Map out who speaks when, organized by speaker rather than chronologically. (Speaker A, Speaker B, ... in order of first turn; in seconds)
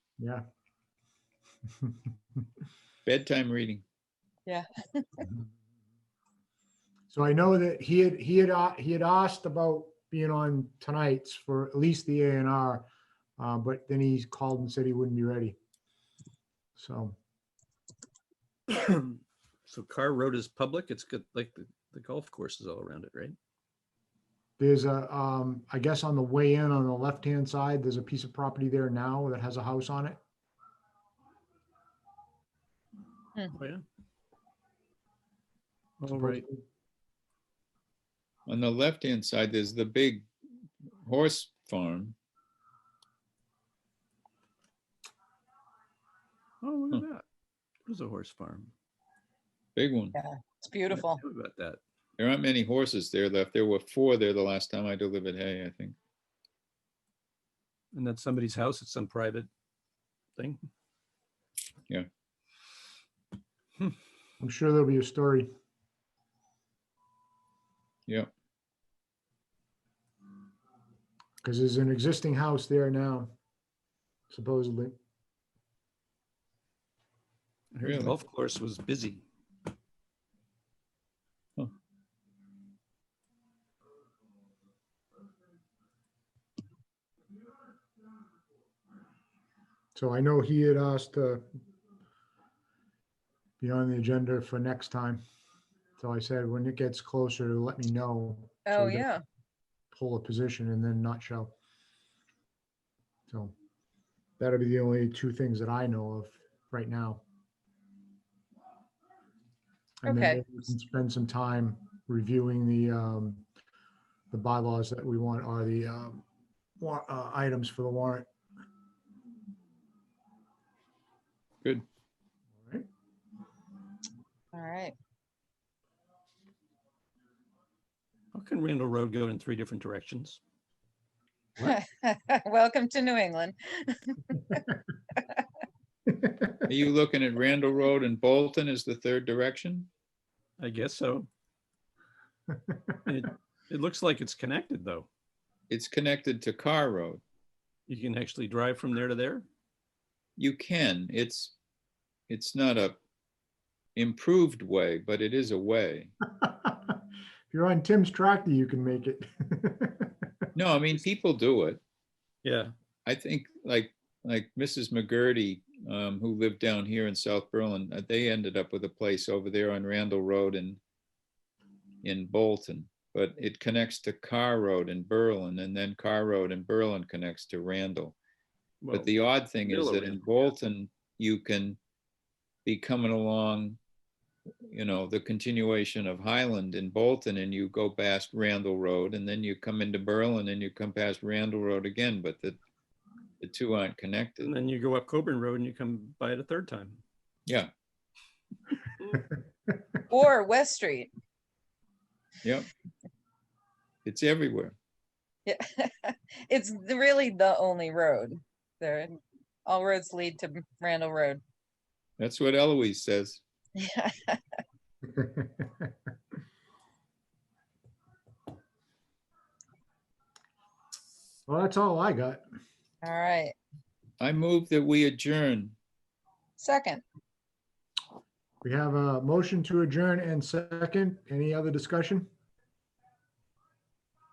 Speaker A: 3.0-3.8, 38.5-40.3, 41.0-42.1, 49.8-50.2, 52.2-56.0, 77.8-78.2, 136.6-139.9, 145.7-147.2, 150.4-151.5, 152.3-153.0, 153.9-156.1, 160.5-161.8, 163.1-170.8, 172.0-178.2, 178.9-181.8, 182.6-183.8, 184.7-192.6, 193.4-194.5, 204.0-204.8, 212.2-213.4, 224.2-225.8
Speaker B: 4.5-5.3, 50.1-51.2, 98.7-99.2, 110.0-110.4, 124.5-124.9, 131.6-134.5, 200.1-201.1, 205.4-209.1, 209.7-211.4, 213.8-214.4, 223.0-223.5, 226.6-227.0
Speaker C: 7.1-12.9, 13.4-15.6, 16.8-17.2, 24.6-30.2, 36.1-36.6, 64.4-65.5, 71.4-73.3, 74.3-75.0, 89.9-91.4, 93.6-95.2, 96.0-99.1, 99.9-101.5, 103.3-103.5, 104.4-107.2, 110.0-113.4, 114.3-116.2, 116.8-118.3, 122.5-122.8, 156.4-156.9, 157.5-160.1, 215.1-215.7, 221.5-222.4, 228.6-232.3
Speaker D: 18.7-23.4, 33.5-33.8, 36.0-36.4, 46.6-47.2, 47.8-48.7, 50.9-51.8, 57.9-59.5, 60.4-60.6, 77.7-79.2, 128.3-130.4, 140.6-141.3, 143.0-145.1, 147.9-149.4, 162.4-162.7, 178.8-179.1, 179.6-180.2, 194.4-197.0